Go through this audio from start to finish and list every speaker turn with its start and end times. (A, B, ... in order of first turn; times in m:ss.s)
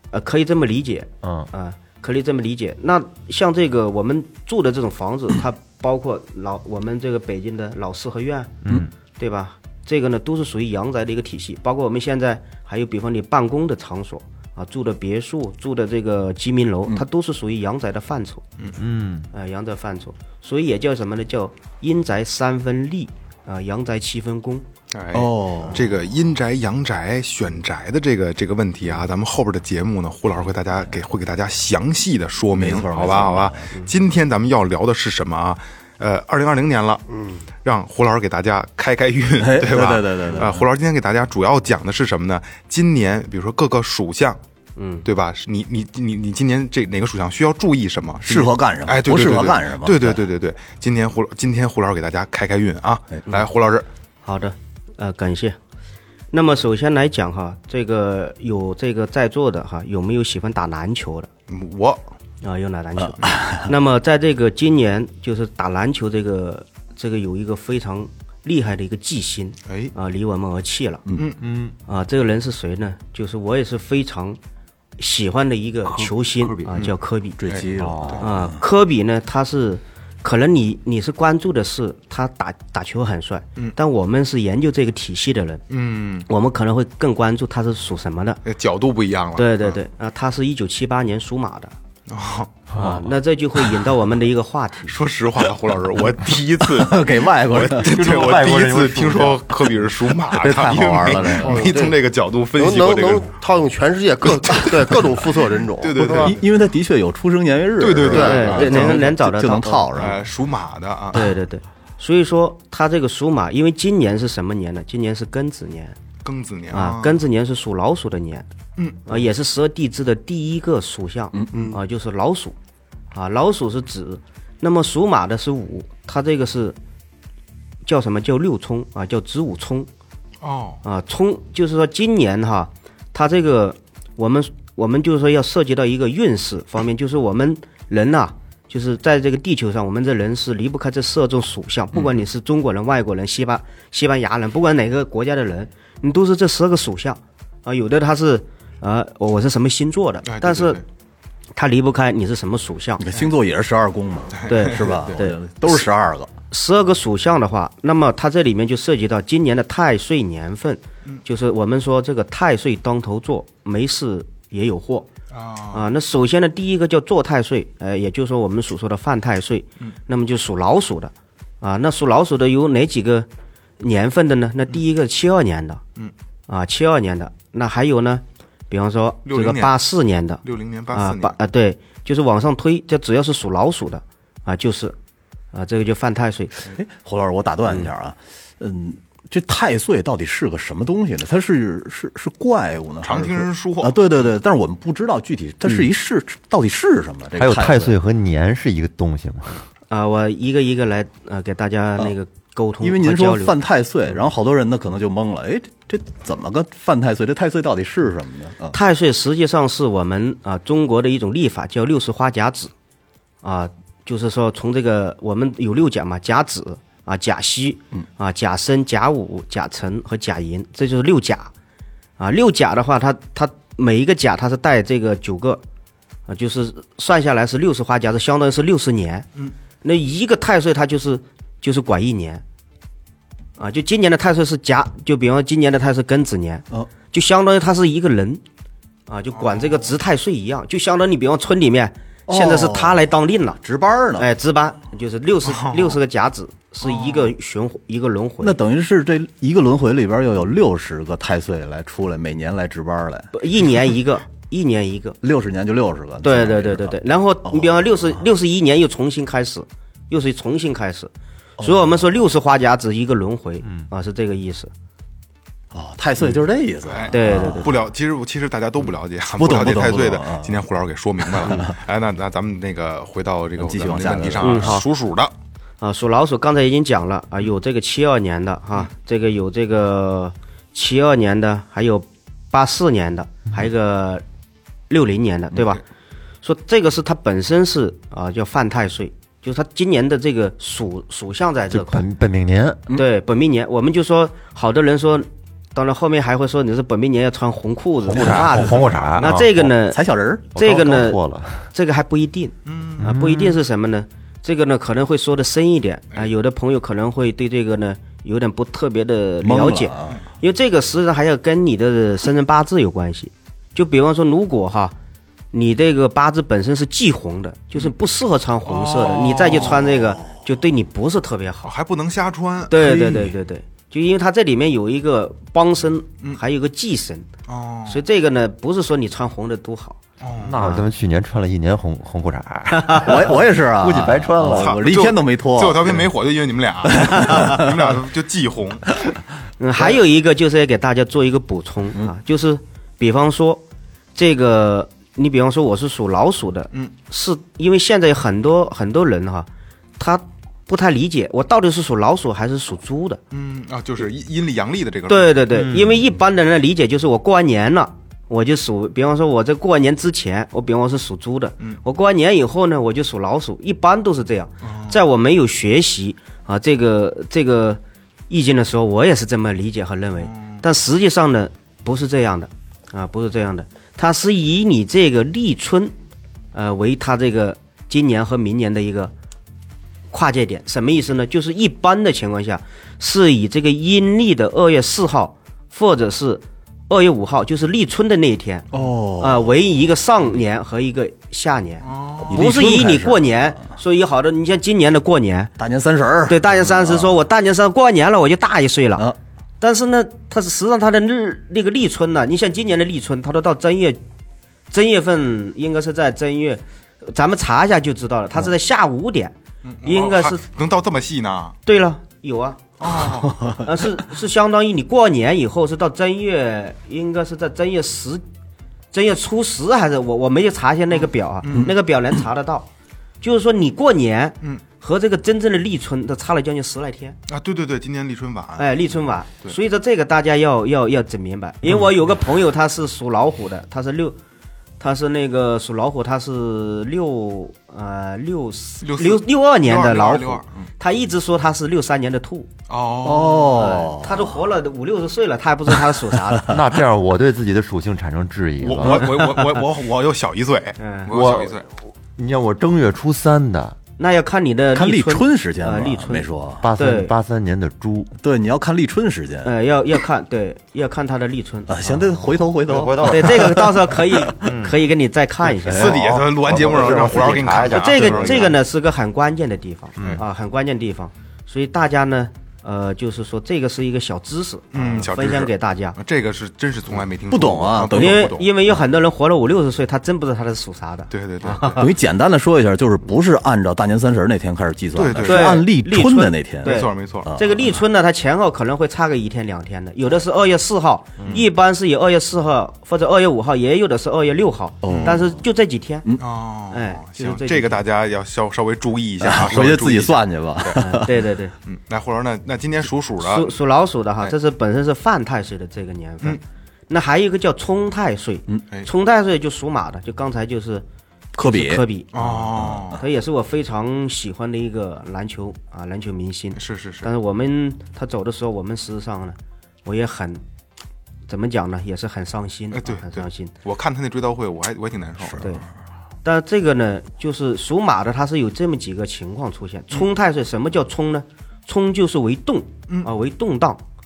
0:00.1-0:08.5 A
0:01.2-0:01.5 B
0:08.6-0:08.9 B
0:09.2-0:18.4 A
0:18.8-0:19.3 B
0:19.3-0:24.6 A
0:24.9-0:37.0 C
0:25.1-0:25.8 D
0:32.5-0:33.7 D
0:37.6-0:44.4 C
0:39.4-0:40.6 D
0:44.8-0:45.0 A
0:45.0-0:53.9 C
0:48.2-0:50.2 D
0:54.2-0:55.6 A
0:56.3-1:01.3 A
1:01.5-1:02.0 C
1:02.4-1:11.0 A
1:03.2-1:03.7 D
1:09.7-1:09.9 C
1:11.2-1:11.4 C
1:11.4-1:11.8 B
1:11.9-1:14.4 A
1:15.0-1:17.4 A
1:16.4-1:16.7 B
1:17.4-1:18.6 D
1:17.5-1:18.2 C
1:17.8-1:18.2 B
1:18.2-1:25.6 A
1:25.7-1:26.3 C
1:26.3-1:28.4 A
1:28.4-1:29.8 C
1:29.4-1:31.8 A
1:32.1-1:32.9 C
1:32.7-1:35.0 A
1:34.9-1:43.3 C
1:36.6-1:38.3 D
1:37.8-1:39.4 B
1:40.2-1:41.7 D
1:41.4-1:42.0 E
1:42.6-1:46.4 E
1:44.4-1:44.9 C
1:45.8-1:46.4 C
1:46.0-1:50.2 D
1:47.8-1:49.0 C
1:48.1-1:48.9 E
1:48.1-1:49.9 A
1:49.9-1:51.4 C
1:51.1-1:56.0 A
1:56.2-1:57.2 C
1:56.7-1:58.5 A
1:58.8-1:59.1 C
1:59.1-2:02.6 A
2:01.3-2:01.7 D
2:03.1-2:06.8 A
2:07.8-2:09.9 A
2:10.4-2:10.8 C
2:10.8-2:30.8 A
2:30.2-2:30.8 C
2:31.6-2:33.0 A
2:33.0-2:36.3 D
2:34.3-2:34.8 C
2:34.5-2:35.9 A
2:36.5-2:45.1 A
2:45.3-2:45.9 C
2:45.7-2:53.3 A
2:53.8-2:55.8 A
2:56.5-3:05.0 A
2:59.2-2:59.8 C
3:00.4-3:01.4 C
3:05.5-3:06.7 A
3:06.7-3:18.0 D
3:13.0-3:14.0 C
3:17.4-3:19.6 B
3:19.9-3:23.6 A
3:22.8-3:28.8 D
3:28.7-3:32.7 A
3:33.4-3:41.5 A
3:42.2-3:45.6 A
3:46.3-3:49.3 A
3:49.8-3:52.4 A
3:53.6-3:58.4 A
3:59.1-4:03.6 A
3:59.4-3:59.9 C
4:02.3-4:03.0 D
4:03.6-4:04.3 D
4:04.2-4:08.6 A
4:05.4-4:06.0 C
4:06.8-4:07.3 C
4:08.4-4:13.3 D
4:13.3-4:15.2 A
4:15.2-4:18.2 D
4:16.2-4:24.7 A
4:25.7-4:27.7 D
4:26.9-4:35.3 C
4:27.1-4:27.7 A
4:29.4-4:30.6 D
4:31.2-4:31.8 D
4:33.6-4:34.8 D
4:34.4-4:34.9 A
4:35.8-4:44.2 A
4:44.9-4:45.8 A
4:46.4-4:52.1 A
4:51.7-4:52.8 B
4:52.9-5:00.0 A
4:58.1-4:59.5 B
4:58.1-5:00.4 D
5:00.5-5:01.7 B
5:00.6-5:01.2 A
5:01.7-5:15.0 A
5:02.7-5:03.1 C
5:03.0-5:03.6 B
5:09.4-5:10.2 D
5:15.5-5:21.7 A
5:18.7-5:19.8 C
5:19.4-5:20.3 D
5:21.6-5:22.8 C
5:22.7-5:27.3 A
5:22.8-5:23.3 D
5:27.5-5:28.0 C
5:27.9-5:30.0 A
5:30.2-5:30.6 C
5:30.4-5:34.8 B
5:30.6-5:30.9 A
5:32.7-5:33.1 A
5:33.0-5:36.1 D
5:34.5-5:39.0 C
5:36.9-5:37.8 D
5:37.2-5:37.6 A
5:39.6-5:43.6 A
5:44.2-5:53.2 A
5:53.3-5:55.5 C
5:55.1-6:15.9 A
5:55.5-5:56.0 B
6:04.6-6:05.0 C
6:10.2-6:10.6 C
6:16.5-6:19.1 A
6:20.1-6:28.7 A
6:28.7-6:29.5 D
6:29.2-6:35.5 A
6:31.8-6:32.4 C
6:32.2-6:33.3 D
6:35.6-6:37.2 D
6:36.3-6:44.0 A
6:44.7-6:50.4 A
6:49.6-6:51.6 C
6:51.7-6:53.0 A
6:52.8-6:53.6 C
6:53.6-6:58.2 A
6:58.9-7:02.7 A
7:01.4-7:01.7 C
7:03.2-7:07.2 A
7:07.3-7:08.7 C
7:08.6-7:14.2 A
7:14.8-7:22.5 A
7:18.8-7:20.7 C
7:22.7-7:23.7 C
7:23.0-7:24.3 D
7:23.5-7:26.6 A
7:26.5-7:29.1 B
7:28.6-7:31.6 C
7:30.8-7:31.1 A
7:31.1-7:31.6 B
7:32.2-7:33.8 B
7:34.0-7:37.1 A
7:34.8-7:36.7 D
7:36.6-7:38.1 B
7:38.2-7:39.5 D
7:39.4-7:41.8 A
7:41.7-7:44.3 D
7:41.9-7:43.6 B
7:43.0-7:46.0 A
7:44.4-7:44.8 B
7:45.6-7:47.4 D
7:45.7-7:48.6 C
7:46.4-7:48.6 B
7:47.7-7:56.0 A
7:50.0-7:50.2 B
7:54.7-7:58.5 C
7:57.3-7:58.4 D
7:57.9-8:01.9 A
8:01.1-8:01.9 C
8:01.8-8:07.8 D
8:05.0-8:05.6 C
8:05.2-8:16.1 A
8:06.6-8:07.4 C
8:11.2-8:11.4 C
8:14.8-8:15.4 D
8:14.9-8:15.2 C
8:16.2-8:20.8 C
8:16.7-8:17.8 A
8:19.2-8:21.1 D
8:20.8-8:21.6 A
8:21.7-8:23.6 C
8:23.2-8:30.8 A
8:31.4-8:33.0 D
8:31.4-8:32.1 A
8:32.1-8:33.0 C
8:32.9-8:40.4 A
8:36.6-8:37.1 C
8:41.3-8:43.5 A
8:42.7-8:45.5 C
8:45.3-8:45.6 D
8:45.4-8:45.6 A
8:46.2-8:53.8 A